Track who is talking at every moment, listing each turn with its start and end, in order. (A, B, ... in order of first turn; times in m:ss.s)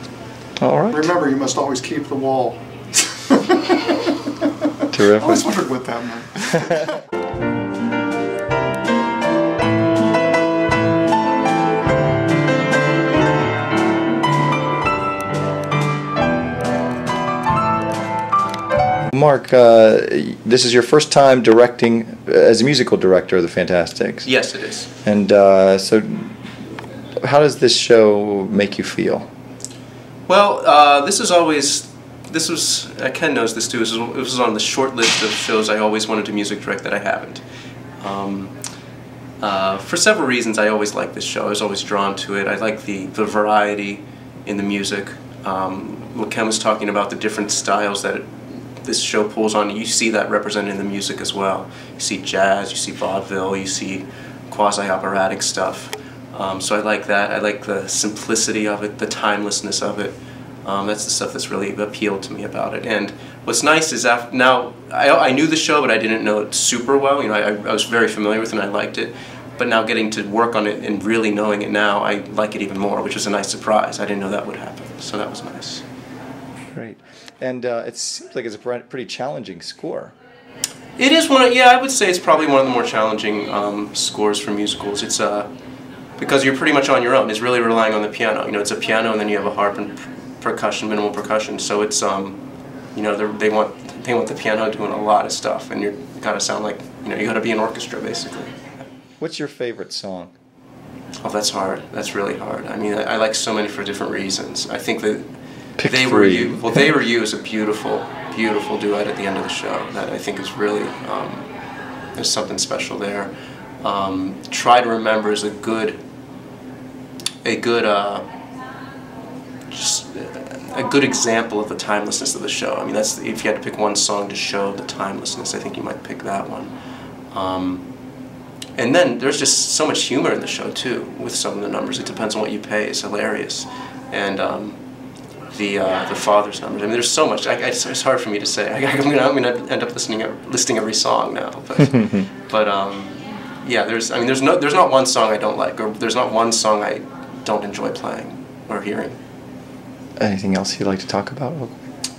0:00.6-0:01.1 A
0:00.9-0:04.3 B
0:04.9-0:05.5 A
0:05.0-0:06.9 B
0:19.1-0:24.3 A
0:24.2-0:24.9 C
0:25.0-0:26.5 A
0:27.2-0:29.3 A
0:30.3-0:37.4 C
0:38.0-0:38.5 C
0:39.4-1:15.8 C
1:16.7-1:20.1 A
1:21.0-1:25.5 C
1:26.2-1:32.4 C
1:32.9-1:38.7 C
1:39.2-1:40.3 A
1:41.2-1:45.2 C
1:45.8-1:46.8 A
1:45.8-1:51.5 C
1:52.2-1:56.0 C
1:57.4-1:58.3 C
1:59.7-2:06.7 C
2:07.3-2:07.9 C
2:08.8-2:14.8 C
2:15.5-2:29.2 C
2:21.8-2:22.2 A
2:30.2-2:31.8 A